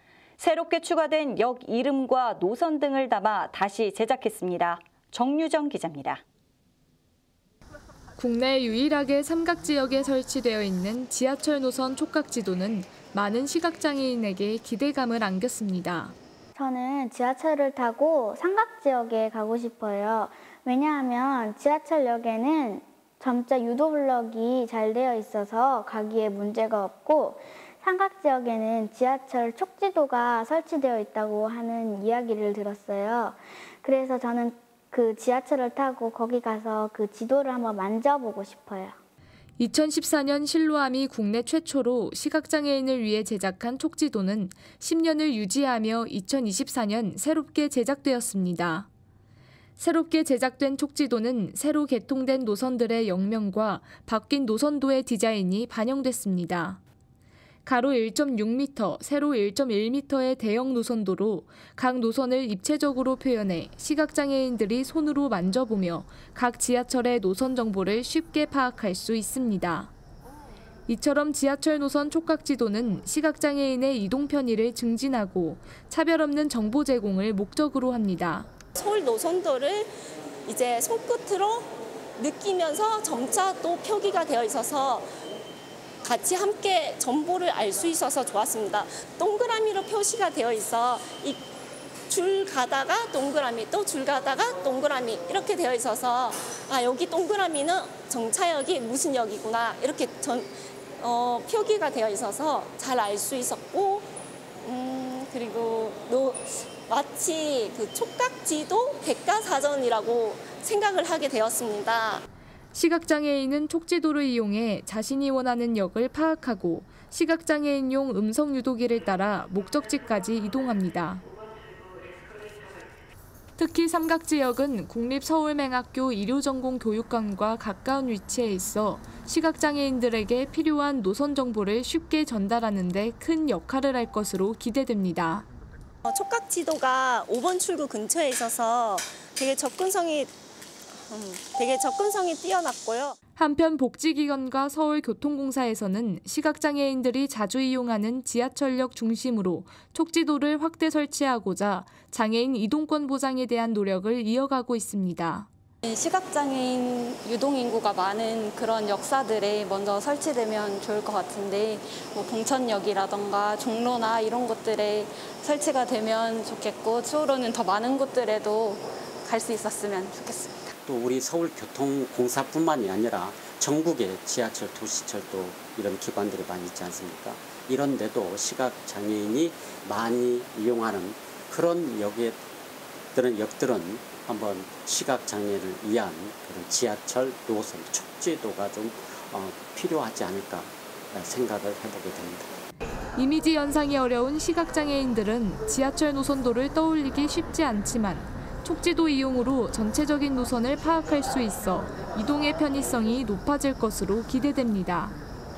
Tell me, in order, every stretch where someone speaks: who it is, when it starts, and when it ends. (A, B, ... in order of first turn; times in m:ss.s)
0:00.4-0:06.2 A
0:08.2-0:16.2 B
0:16.6-0:39.0 C
0:39.6-0:48.9 B
0:49.8-0:56.8 B
0:57.6-1:09.9 B
1:10.9-1:18.5 B
1:18.8-1:19.9 D
1:20.5-1:25.1 D
1:26.0-1:31.4 D
1:32.1-1:44.1 D
1:44.6-1:52.2 D
1:52.7-2:01.2 B
2:03.6-2:15.5 B
2:16.0-2:20.3 D
2:21.0-2:23.2 D
2:23.4-2:35.5 B
2:35.8-2:50.7 E
2:50.8-3:02.4 F
3:03.1-3:12.6 F
3:13.2-3:25.2 B